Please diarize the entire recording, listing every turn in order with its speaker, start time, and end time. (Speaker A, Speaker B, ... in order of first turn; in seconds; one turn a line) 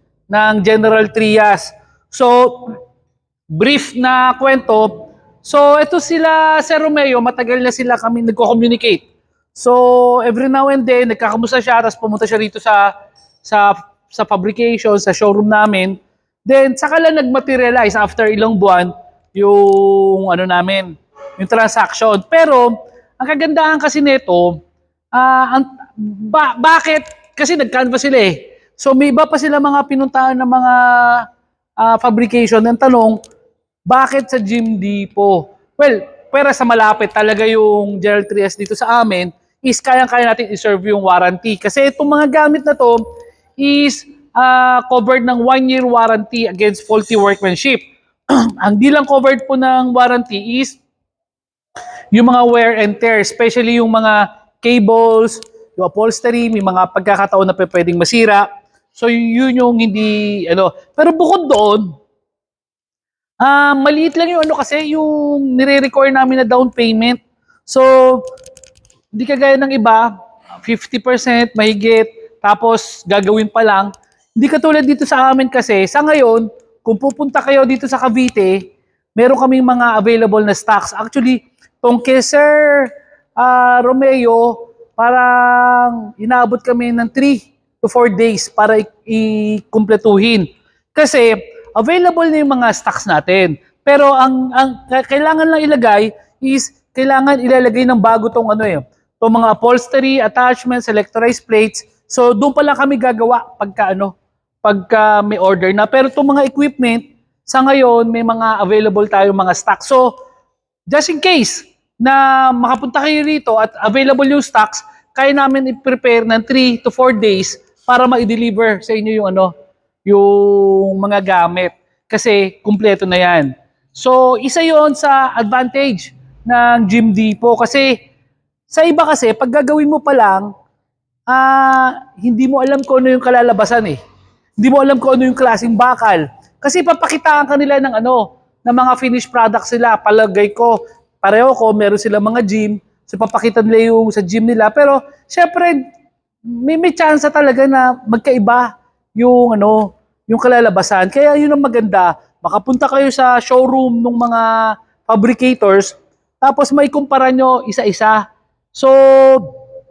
Speaker A: 0.3-2.8
Speaker A: 3.5-9.0
Speaker A: 9.6-12.9
Speaker A: 13.4-24.6
Speaker A: 25.1-31.2
Speaker A: 31.8-33.2
Speaker A: 33.9-43.0
Speaker A: 43.6-50.8
Speaker A: 52.1-61.9
Speaker A: 63.4-68.2
Speaker A: 69.1-70.1
Speaker A: 70.6-78.6
Speaker A: 79.2-104.1
Speaker A: 104.6-110.1
Speaker A: 110.9-119.5
Speaker A: 120.1-128.0
Speaker A: 128.7-130.5
Speaker A: 131.3-134.0
Speaker A: 134.6-145.8
Speaker A: 146.5-158.2
Speaker A: 158.7-159.5